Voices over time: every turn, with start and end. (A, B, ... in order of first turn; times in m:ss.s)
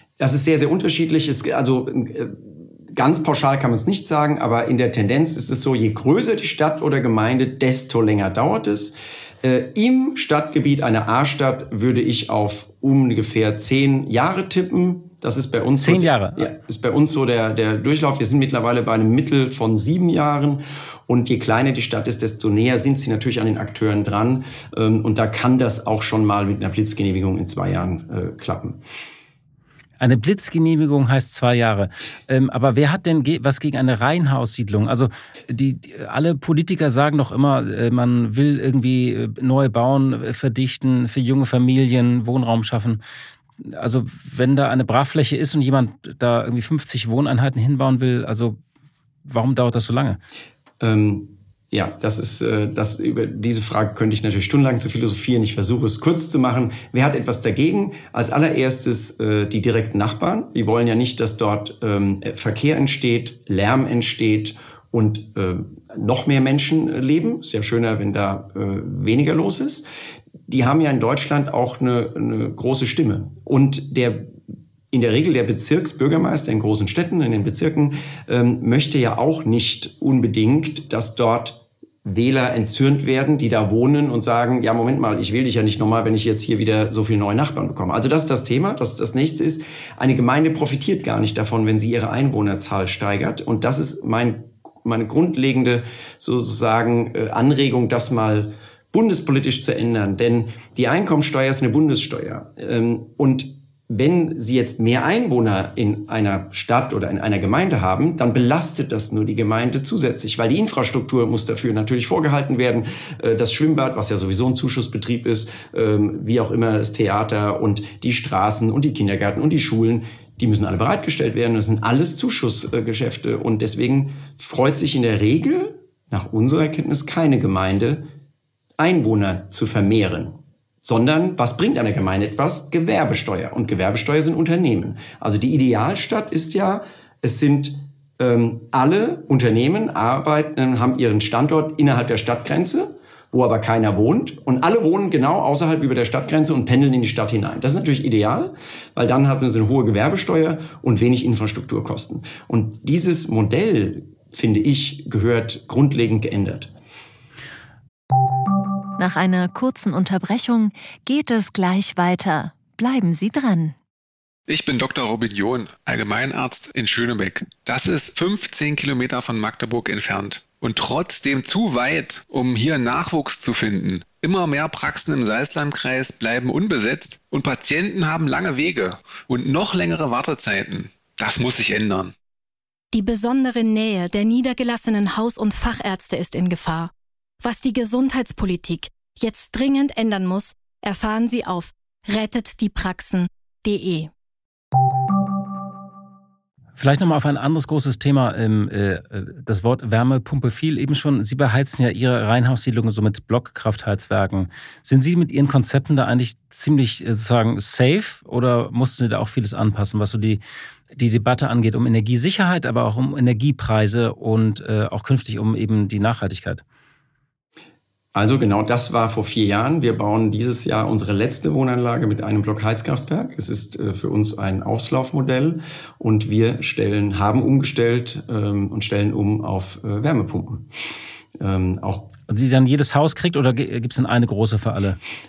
0:00.2-0:28.8 A
0:15.8-0:16.5 B
0:30.0-0:43.0 B
0:43.6-0:48.6 B
0:49.2-0:50.2 B
0:50.8-1:09.9 A
1:10.5-1:14.3 A
1:14.9-2:08.1 A
2:08.8-2:36.7 A
2:39.0-2:43.8 C
2:44.5-3:02.1 D
3:02.9-3:14.1 E
3:16.8-3:30.4 B
3:30.9-3:36.6 B
3:38.1-3:50.7 A
3:51.4-3:52.1 A
3:52.3-3:55.0 B